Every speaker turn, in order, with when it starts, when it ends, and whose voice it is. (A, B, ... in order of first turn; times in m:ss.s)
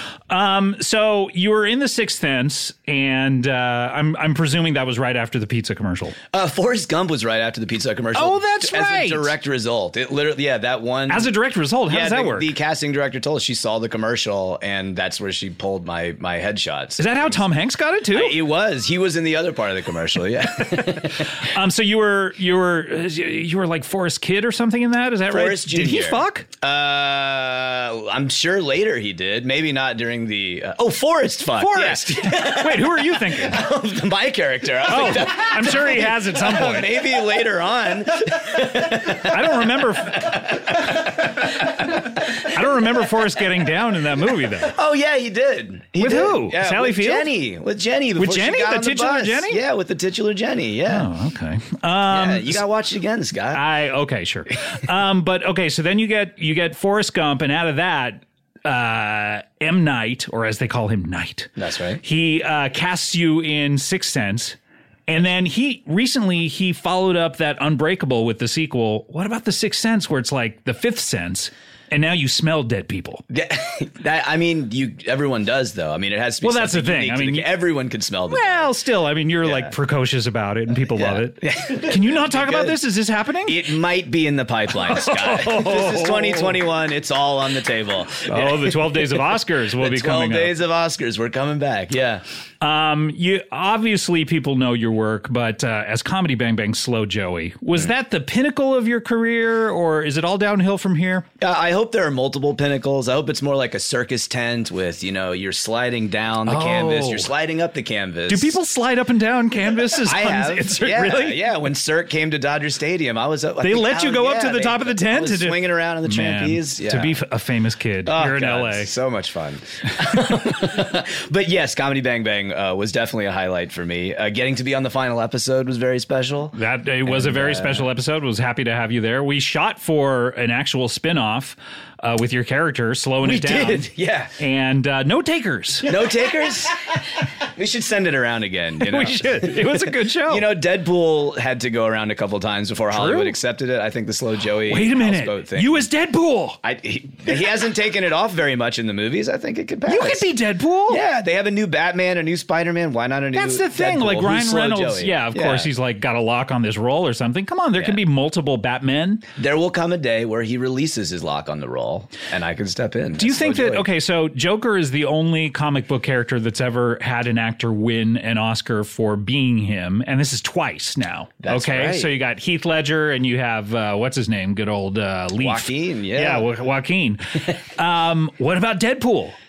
0:00.3-0:06.1 A
0:06.3-0:11.3 B
0:08.1-0:09.3 A
0:11.1-0:12.5 A
0:11.9-0:17.4 B
0:17.0-0:18.4 A
0:18.1-0:21.3 B
0:21.4-0:26.4 A
0:25.3-0:42.5 B
0:31.6-0:33.6 A
0:34.9-0:36.9 A
0:39.2-0:40.4 A
0:42.4-0:44.7 A
0:44.7-0:51.1 B
0:46.0-0:47.3 A
0:48.2-0:49.6 A
0:50.9-0:52.6 A
0:52.1-0:53.6 B
0:53.5-1:01.5 A
1:01.6-1:02.0 B
1:02.0-1:04.6 A
1:05.1-1:13.2 A
1:13.3-1:18.7 B
1:16.4-1:17.5 A
1:18.3-1:23.6 A
1:19.4-1:19.7 B
1:20.9-1:22.8 B
1:23.4-1:32.2 B
1:24.7-1:26.6 A
1:28.3-1:30.5 A
1:32.6-1:41.2 A
1:41.4-1:48.6 B
1:46.4-1:47.3 A
1:48.3-1:51.4 A
1:49.9-1:57.2 B
1:53.6-1:58.9 A
1:58.0-2:07.9 B
2:06.5-2:15.9 A
2:13.2-2:14.3 B
2:15.8-2:25.8 B
2:18.8-2:20.5 A
2:22.9-2:23.4 A
2:24.7-2:26.6 A
2:26.6-2:30.3 B
2:29.9-2:31.0 A
2:30.9-2:35.7 B
2:33.3-2:39.2 A
2:39.4-2:43.9 B
2:43.2-2:59.3 A
2:51.4-2:52.1 B
2:55.4-2:56.5 B